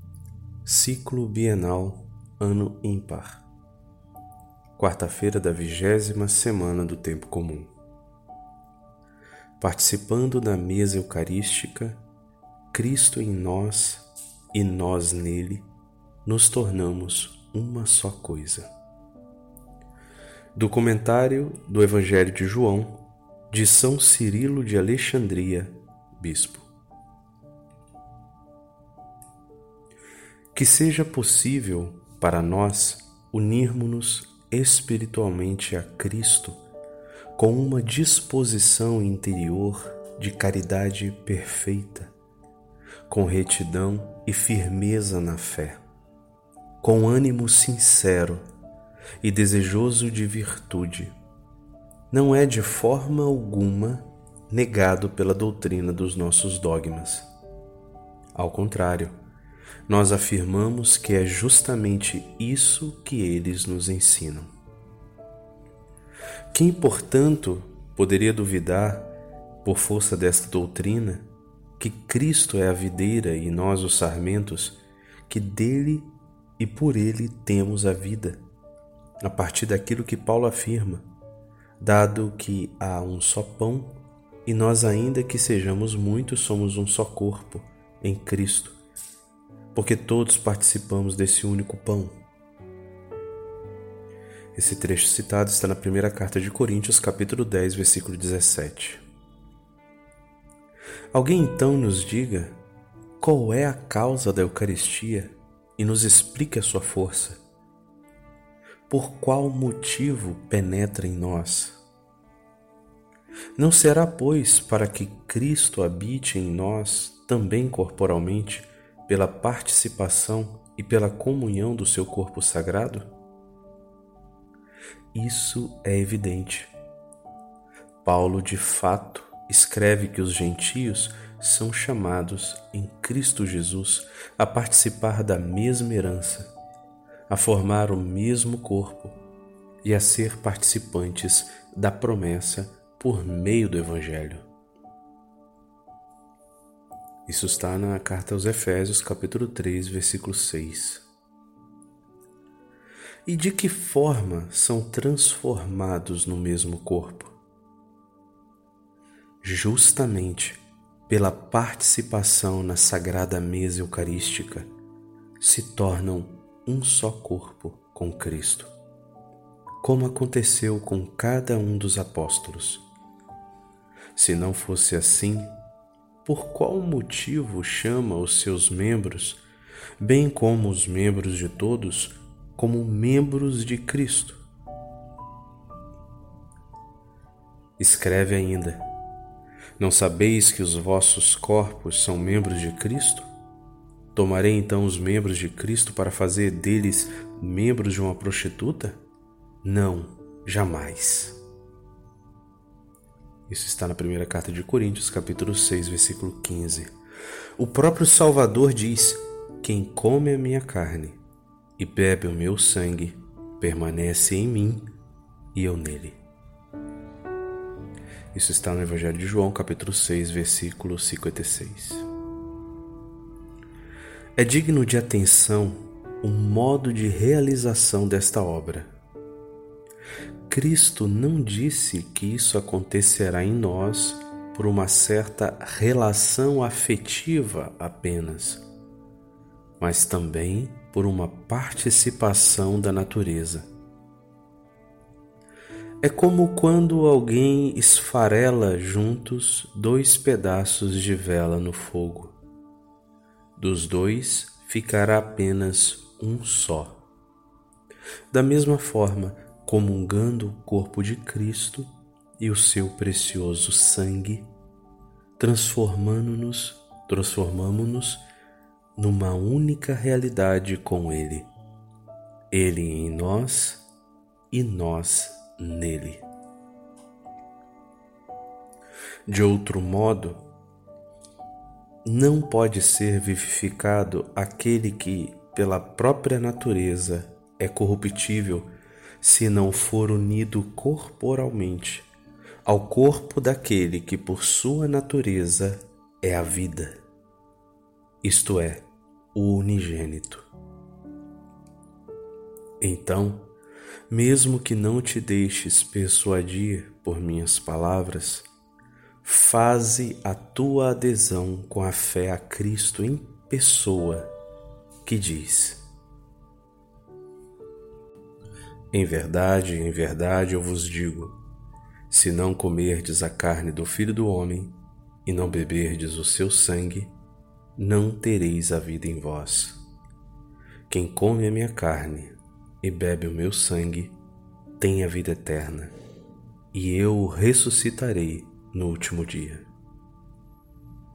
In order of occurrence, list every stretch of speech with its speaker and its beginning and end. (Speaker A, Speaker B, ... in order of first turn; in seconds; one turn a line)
Speaker A: 0.7-3.4
Speaker A: 4.8-7.7
Speaker A: 9.6-12.0
Speaker A: 12.7-15.7
Speaker A: 16.2-18.7
Speaker A: 20.6-26.7
Speaker A: 30.5-36.6
Speaker A: 37.4-42.1
Speaker A: 43.1-45.8
Speaker A: 46.8-48.4
Speaker A: 49.2-51.1
Speaker A: 52.1-57.3
Speaker A: 58.4-59.1
Speaker A: 59.9-64.5
Speaker A: 66.5-69.1
Speaker A: 69.6-71.3
Speaker A: 71.8-78.4
Speaker A: 79.2-81.1
Speaker A: 81.8-88.8
Speaker A: 89.7-92.2
Speaker A: 94.5-99.0
Speaker A: 101.1-102.6
Speaker A: 103.2-107.4
Speaker A: 108.9-111.8
Speaker A: 113.6-123.1
Speaker A: 125.1-126.7
Speaker A: 128.0-136.5
Speaker A: 137.3-139.2
Speaker A: 139.8-144.4
Speaker A: 147.3-151.1
Speaker A: 153.3-157.4
Speaker A: 159.4-164.7
Speaker A: 165.4-168.7
Speaker A: 169.8-172.8
Speaker A: 174.2-175.5
Speaker A: 176.2-179.4
Speaker A: 180.0-184.4
Speaker A: 187.8-188.8
Speaker A: 189.8-193.3
Speaker A: 194.1-199.0
Speaker A: 199.6-201.4
Speaker A: 203.5-206.9
Speaker A: 207.6-211.2
Speaker A: 211.8-214.9
Speaker A: 215.5-216.2
Speaker A: 218.3-222.1
Speaker A: 224.4-228.9
Speaker A: 230.5-238.6
Speaker A: 239.8-243.7
Speaker A: 246.0-252.4
Speaker A: 253.6-257.0
Speaker A: 258.3-264.5
Speaker A: 265.4-268.2
Speaker A: 269.0-271.5
Speaker A: 272.5-273.9
Speaker A: 274.5-276.2
Speaker A: 279.3-280.4
Speaker A: 282.1-288.7
Speaker A: 289.2-292.1
Speaker A: 292.6-297.0
Speaker A: 298.2-300.5
Speaker A: 302.8-303.5
Speaker A: 304.1-308.5
Speaker A: 309.2-314.3
Speaker A: 315.0-315.8
Speaker A: 318.9-321.4
Speaker A: 322.1-327.1
Speaker A: 327.8-329.8
Speaker A: 330.9-334.2
Speaker A: 334.8-335.9
Speaker A: 336.7-339.7